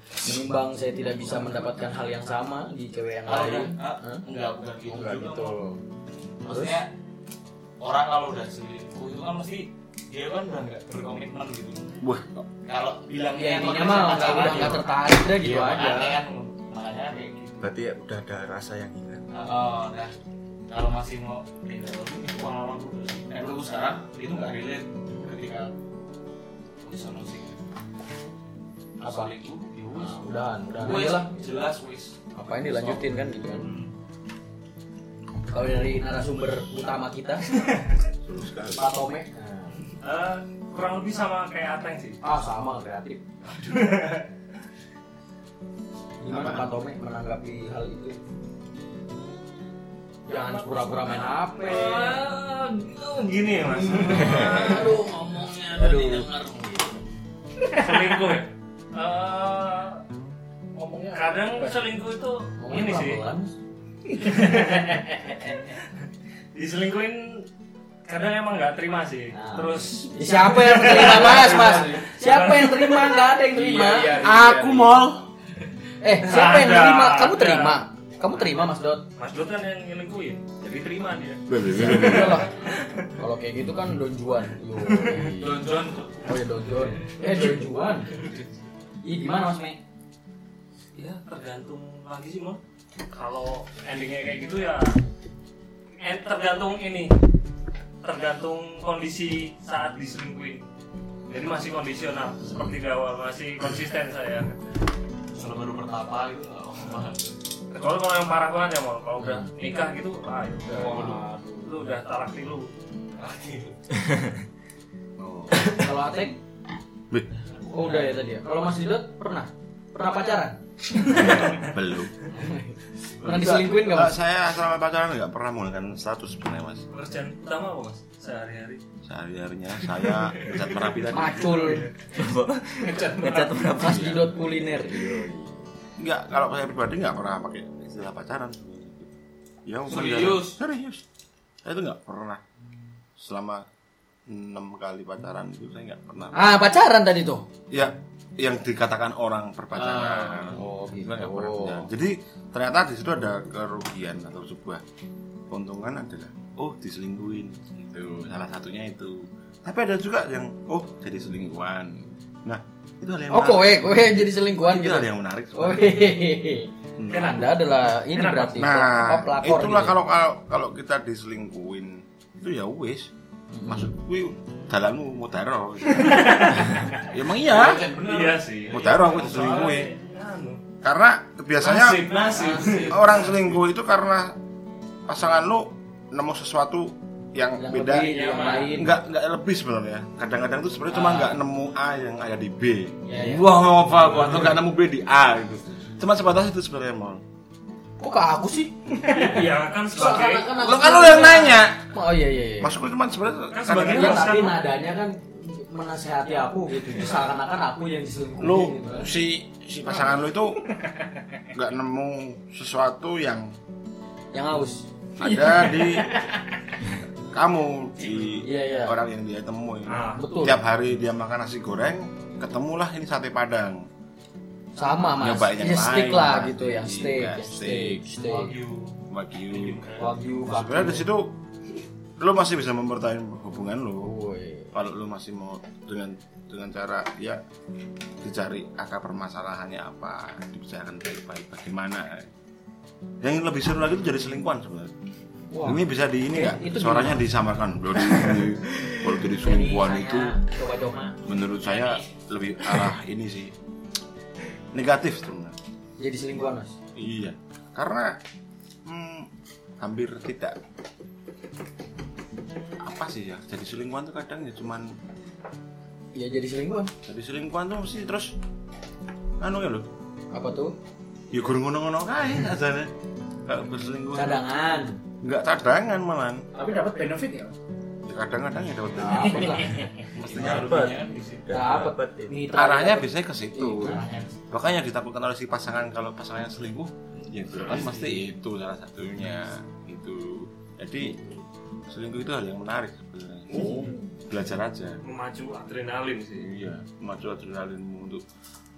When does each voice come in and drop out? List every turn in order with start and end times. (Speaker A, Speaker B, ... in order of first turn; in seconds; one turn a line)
Speaker A: 0.2-4.2
Speaker B: 3.3-5.5
Speaker A: 4.9-5.8
Speaker B: 6.4-6.9
Speaker A: 6.5-6.8
Speaker B: 7.8-11.9
Speaker C: 12.0-12.5
Speaker B: 12.7-17.7
Speaker A: 13.3-16.2
Speaker D: 17.6-19.2
Speaker B: 19.3-20.1
Speaker B: 20.7-25.7
Speaker B: 26.8-27.6
Speaker B: 29.0-33.0
Speaker A: 29.9-31.3
Speaker A: 32.4-33.7
Speaker B: 33.6-33.9
Speaker A: 35.5-37.7
Speaker C: 38.2-38.8
Speaker A: 38.7-39.8
Speaker E: 40.0-42.2
Speaker A: 42.2-43.2
Speaker E: 43.5-44.3
Speaker A: 46.2-48.2
Speaker C: 46.3-46.7
Speaker A: 50.3-52.2
Speaker E: 51.6-55.0
Speaker A: 53.9-57.0
Speaker D: 55.8-56.2
Speaker E: 57.7-60.0
Speaker F: 60.8-61.9
Speaker E: 61.1-63.2
Speaker A: 62.6-63.5
Speaker E: 64.2-65.7
Speaker E: 66.5-67.5
Speaker E: 68.1-73.3
Speaker A: 69.3-74.2
Speaker F: 73.5-75.1
Speaker C: 74.1-75.2
Speaker A: 76.0-79.0
Speaker E: 76.2-77.8
Speaker E: 79.2-83.1
Speaker C: 81.5-82.4
Speaker A: 81.7-82.5
Speaker A: 83.2-85.6
Speaker B: 85.4-86.3
Speaker A: 86.2-88.1
Speaker A: 89.0-89.8
Speaker E: 91.0-92.6
Speaker E: 93.1-95.0
Speaker E: 96.0-97.1
Speaker E: 98.0-100.6
Speaker E: 101.3-104.6
Speaker B: 105.3-107.4
Speaker E: 107.7-112.7
Speaker A: 109.2-109.5
Speaker A: 110.7-111.7
Speaker B: 113.2-113.8
Speaker C: 115.2-115.8
Speaker A: 115.6-116.4
Speaker A: 117.7-121.5
Speaker C: 121.0-122.2
Speaker E: 121.4-121.6
Speaker A: 122.3-124.2
Speaker C: 123.2-126.8
Speaker E: 126.9-128.8
Speaker C: 129.1-131.8
Speaker A: 131.1-131.9
Speaker D: 132.1-135.3
Speaker A: 133.8-135.5
Speaker C: 136.0-139.1
Speaker C: 139.7-141.0
Speaker B: 139.9-140.6
Speaker C: 141.7-142.4
Speaker C: 143.2-143.7
Speaker C: 144.3-146.4
Speaker A: 146.3-147.5
Speaker C: 147.7-154.8
Speaker B: 149.7-150.6
Speaker A: 150.5-151.9
Speaker C: 155.5-164.1
Speaker A: 163.3-166.7
Speaker C: 164.7-166.1
Speaker C: 167.0-167.4
Speaker E: 167.1-168.7
Speaker A: 167.2-170.0
Speaker C: 168.6-173.1
Speaker A: 173.5-173.9
Speaker C: 173.7-177.9
Speaker E: 175.9-177.1
Speaker B: 177.4-179.7
Speaker E: 178.0-180.6
Speaker C: 178.7-179.9
Speaker C: 180.8-182.1
Speaker E: 181.6-183.1
Speaker B: 182.3-183.4
Speaker C: 182.9-184.4
Speaker C: 185.1-197.2
Speaker A: 187.6-188.9
Speaker E: 187.9-188.8
Speaker B: 190.9-191.4
Speaker A: 193.1-193.4
Speaker B: 194.0-194.6
Speaker A: 198.0-199.4
Speaker E: 199.0-200.6
Speaker A: 199.9-202.8
Speaker C: 200.5-201.8
Speaker C: 202.6-204.3
Speaker E: 203.5-204.6
Speaker A: 203.8-209.1
Speaker C: 208.4-210.6
Speaker C: 211.5-213.5
Speaker A: 214.3-216.2
Speaker C: 215.2-216.1
Speaker C: 217.3-223.8
Speaker A: 218.4-219.0
Speaker E: 219.9-220.2
Speaker A: 220.2-220.6
Speaker A: 224.8-228.6
Speaker C: 225.2-228.0
Speaker B: 228.2-230.2
Speaker C: 229.1-229.8
Speaker A: 230.0-231.1
Speaker C: 230.4-231.3
Speaker C: 232.2-234.1
Speaker A: 234.0-234.7
Speaker C: 234.7-237.4
Speaker C: 238.2-242.3
Speaker C: 243.2-244.9
Speaker A: 245.5-247.2
Speaker C: 245.6-250.4
Speaker A: 249.3-251.2
Speaker C: 251.2-253.5
Speaker C: 254.7-255.6
Speaker A: 256.0-256.8
Speaker C: 256.9-258.2
Speaker C: 258.9-259.3
Speaker C: 259.8-260.6
Speaker C: 262.8-264.9
Speaker A: 266.1-266.9
Speaker C: 267.1-268.4
Speaker C: 269.4-269.9
Speaker A: 270.3-270.7
Speaker C: 271.3-272.9
Speaker C: 273.5-274.4
Speaker A: 274.1-275.0
Speaker C: 275.2-276.4
Speaker F: 276.5-277.6
Speaker C: 278.1-280.7
Speaker A: 279.0-279.9
Speaker B: 280.1-281.5
Speaker D: 280.3-282.4
Speaker A: 281.5-284.1
Speaker C: 282.5-291.2
Speaker B: 283.8-284.4
Speaker B: 287.6-288.3
Speaker C: 291.9-295.0
Speaker A: 293.5-294.0
Speaker E: 295.0-296.5
Speaker C: 296.4-298.2